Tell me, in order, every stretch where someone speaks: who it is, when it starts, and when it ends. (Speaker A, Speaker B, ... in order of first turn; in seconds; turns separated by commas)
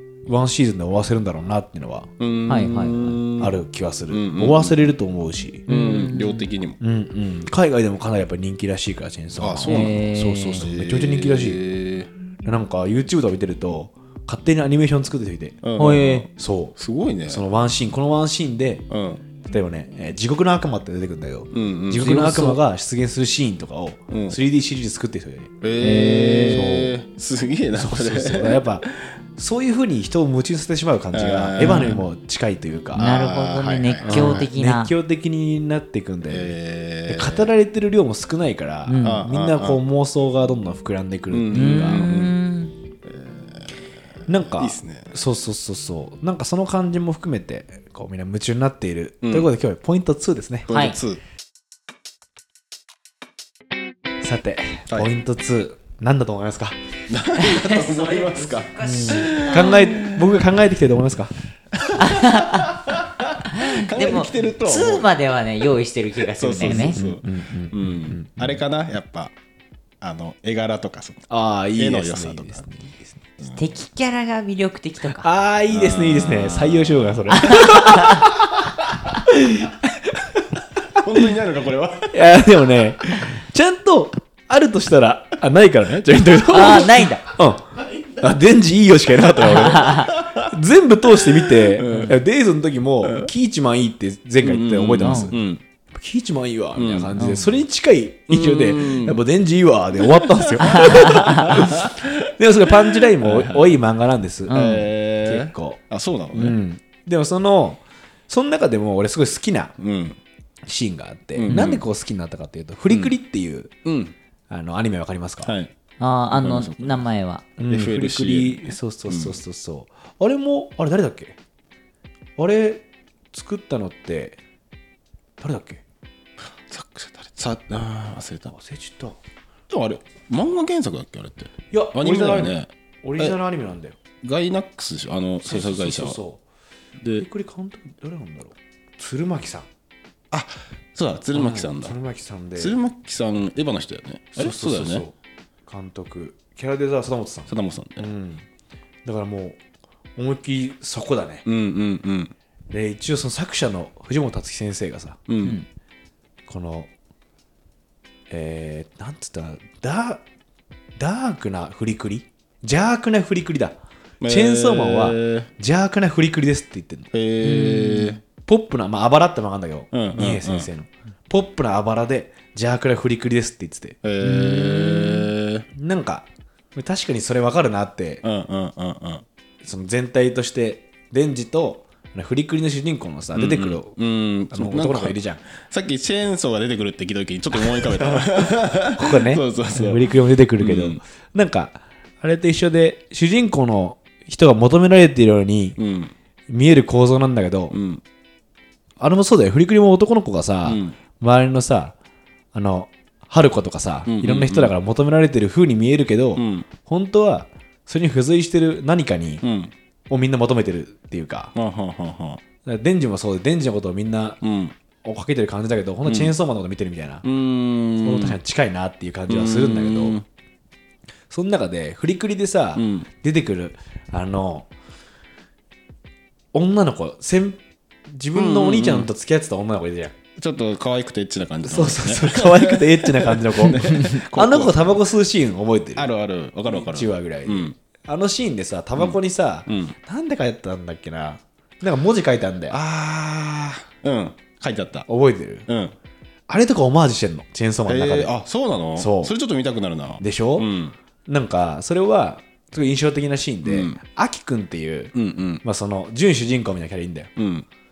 Speaker A: 0.3-2.1, Speaker B: 2.2-3.5, Speaker C: 2.5-3.2, Speaker A: 3.4-5.7, Speaker B: 4.1-4.8, Speaker B: 5.7-6.8, Speaker C: 5.7-6.5, Speaker A: 6.8-11.6, Speaker B: 9.4-12.1, Speaker C: 9.7-10.6, Speaker A: 12.4-15.7, Speaker B: 15.6-17.4, Speaker C: 15.8-16.3, Speaker A: 16.3-16.8, Speaker A: 17.3-18.8, Speaker B: 18.9-19.2, Speaker A: 19.4-25.6, Speaker B: 21.5-22.2, Speaker C: 22.0-22.6, Speaker B: 24.1-24.4, Speaker B: 25.6-29.1, Speaker C: 25.8-26.7, Speaker A: 26.4-26.9, Speaker A: 27.8-33.2, Speaker B: 31.1-32.0, Speaker B: 33.0-34.5, Speaker C: 33.0-34.9, Speaker A: 34.0-36.5, Speaker B: 36.3-37.5, Speaker A: 37.1-42.1, Speaker C: 38.9-39.2, Speaker B: 39.0-39.8, Speaker B: 41.3-42.4, Speaker C: 41.5-42.7, Speaker B: 43.0-43.8, Speaker A: 44.3-50.7, Speaker B: 44.5-45.1, Speaker B: 49.2-49.5, Speaker B: 50.7-51.2, Speaker C: 50.7-51.0, Speaker A: 54.2-56.8, Speaker B: 57.1-60.4, Speaker C: 57.4-59.8, Speaker A: 58.8-61.3, Speaker B: 61.7-65.1, Speaker C: 62.0-62.9, Speaker C: 63.5-67.0, Speaker B: 66.2-69.3, Speaker A: 66.6-68.6, Speaker B: 70.0-72.6, Speaker A: 71.3-73.2, Speaker C: 73.5-75.3, Speaker A: 75.1-81.0, Speaker B: 75.7-77.7, Speaker C: 77.3-78.3, Speaker B: 81.0-82.2, Speaker A: 82.1-95.4, Speaker C: 86.5-87.2, Speaker B: 87.8-88.2, Speaker B: 89.4-90.5, Speaker C: 89.5-90.1, Speaker B: 91.1-92.2, Speaker B: 93.0-93.3, Speaker B: 94.4-95.6, Speaker C: 95.0-95.3, Speaker A: 95.9-104.7, Speaker B: 96.8-97.3, Speaker C: 97.2-97.5, Speaker B: 98.3-99.2, Speaker B: 100.0-103.8, Speaker C: 104.5-104.9, Speaker B: 104.5-106.6, Speaker A: 105.2-105.8, Speaker A: 106.3-109.7, Speaker B: 109.8-110.2, Speaker A: 110.7-113.7, Speaker B: 111.4-111.8, Speaker B: 113.8-114.2, Speaker A: 114.5-115.5, Speaker B: 115.4-115.7, Speaker C: 116.0-117.5, Speaker B: 116.3-117.0, Speaker A: 117.6-121.4, Speaker B: 117.7-119.4, Speaker A: 122.4-124.4, Speaker A: 125.4-125.8, Speaker B: 126.4-128.5, Speaker A: 128.5-129.2, Speaker B: 129.7-133.4, Speaker A: 131.7-134.0, Speaker B: 134.2-136.2, Speaker A: 135.4-136.4, Speaker B: 137.0-137.3, Speaker A: 137.2-139.7, Speaker B: 140.3-142.0, Speaker A: 141.3-142.8, Speaker B: 142.6-145.1, Speaker A: 144.4-145.2, Speaker A: 145.7-148.5, Speaker B: 147.5-148.1, Speaker A: 149.1-149.6, Speaker A: 150.2-151.4, Speaker B: 151.4-152.3, Speaker A: 152.7-155.2, Speaker B: 155.3-155.6, Speaker A: 156.5-156.9, Speaker A: 158.3-160.2, Speaker A: 161.0-167.1, Speaker B: 164.2-165.5, Speaker B: 167.1-168.2, Speaker C: 167.4-168.2, Speaker A: 168.4-174.0, Speaker B: 169.9-170.7, Speaker B: 174.0-175.7, Speaker C: 174.2-175.3, Speaker A: 175.7-178.2, Speaker B: 178.2-179.2, Speaker A: 179.6-183.9, Speaker B: 183.3-191.0, Speaker A: 184.5-185.4, Speaker A: 187.6-195.8, Speaker B: 195.8-196.1, Speaker A: 196.5-197.8, Speaker B: 197.7-198.0, Speaker A: 199.0-201.9, Speaker B: 200.7-201.0, Speaker A: 202.5-209.4, Speaker B: 204.1-204.7, Speaker B: 206.4-206.7, Speaker B: 209.4-209.7, Speaker A: 210.1-211.5, Speaker B: 211.6-212.4, Speaker A: 212.7-214.4, Speaker B: 214.4-214.8, Speaker A: 215.0-217.3, Speaker B: 216.1-216.3, Speaker B: 217.2-218.4, Speaker A: 218.0-220.2, Speaker B: 219.3-220.2, Speaker A: 221.3-224.7, Speaker B: 222.8-223.1, Speaker A: 226.5-230.2, Speaker B: 228.3-229.1, Speaker B: 230.4-235.1, Speaker A: 231.7-236.1, Speaker B: 236.0-237.8, Speaker A: 236.7-242.8, Speaker B: 239.0-240.0, Speaker B: 242.7-245.1, Speaker A: 245.1-245.7, Speaker B: 245.7-245.9, Speaker A: 246.5-248.3, Speaker B: 247.9-250.9, Speaker A: 249.0-249.3, Speaker A: 250.2-250.7, Speaker A: 251.3-257.3, Speaker B: 253.6-254.0, Speaker B: 255.1-255.6, Speaker B: 257.4-257.7